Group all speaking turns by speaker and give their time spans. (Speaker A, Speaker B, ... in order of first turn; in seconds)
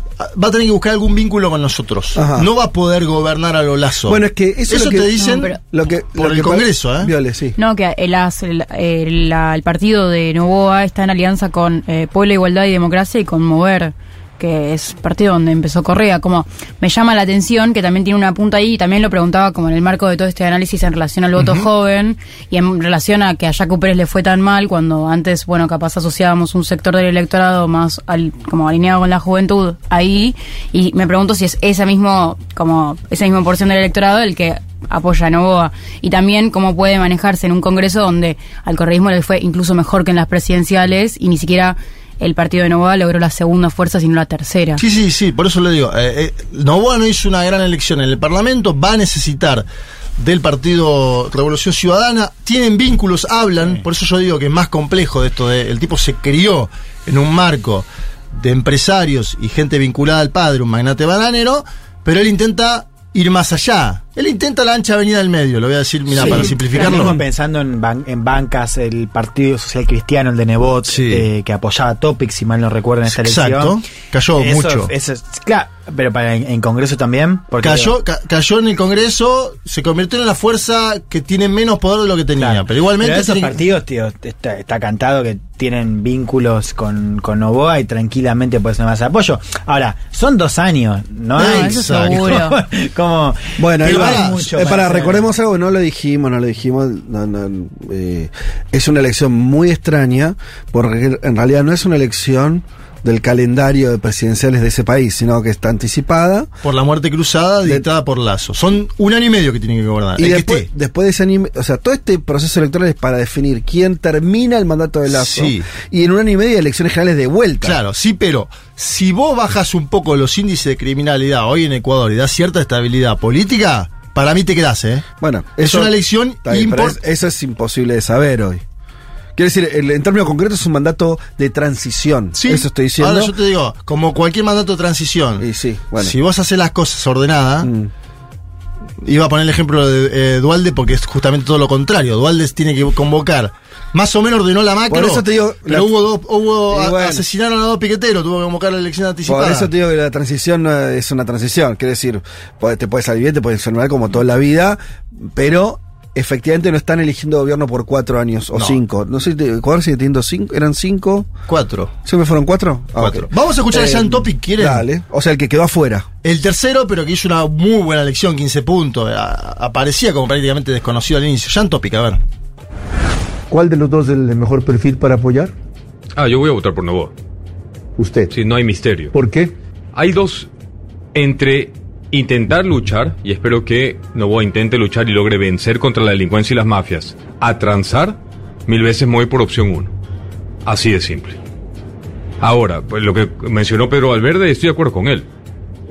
Speaker A: 0.2-5.5, 6.2-7.1, 21.4-21.7, 44.8-49.6, 50.2-67.2, 70.8-71.3, 73.1-74.9, 77.6-83.6, 91.3-92.4, 93.8-94.4, 106.6-110.7, 115.1-115.7, 117.6-125.0, 125.6-127.0, 132.3-135.4, 136.0-137.7, 139.0-149.7, 161.5-161.9, 163.0-164.8, 166.2-172.2
Speaker B: 2.1-2.5, 4.1-7.5, 93.6-106.5, 110.2-117.8, 125.2-128.6, 129.3-133.3, 135.4-136.1, 137.6-137.9, 144.9-145.9, 146.7-147.2, 149.3-161.3, 162.1-166.1
Speaker C: 7.6-44.8, 91.4-92.6
Speaker D: 66.2-73.8, 74.4-77.9, 82.4-95.3
Speaker E: 173.5-175.5, 178.0-178.3, 179.1-179.5
Speaker F: 176.2-177.1, 178.3-179.1, 179.9-180.5, 181.1-189.9, 190.6-191.4, 192.4-195.3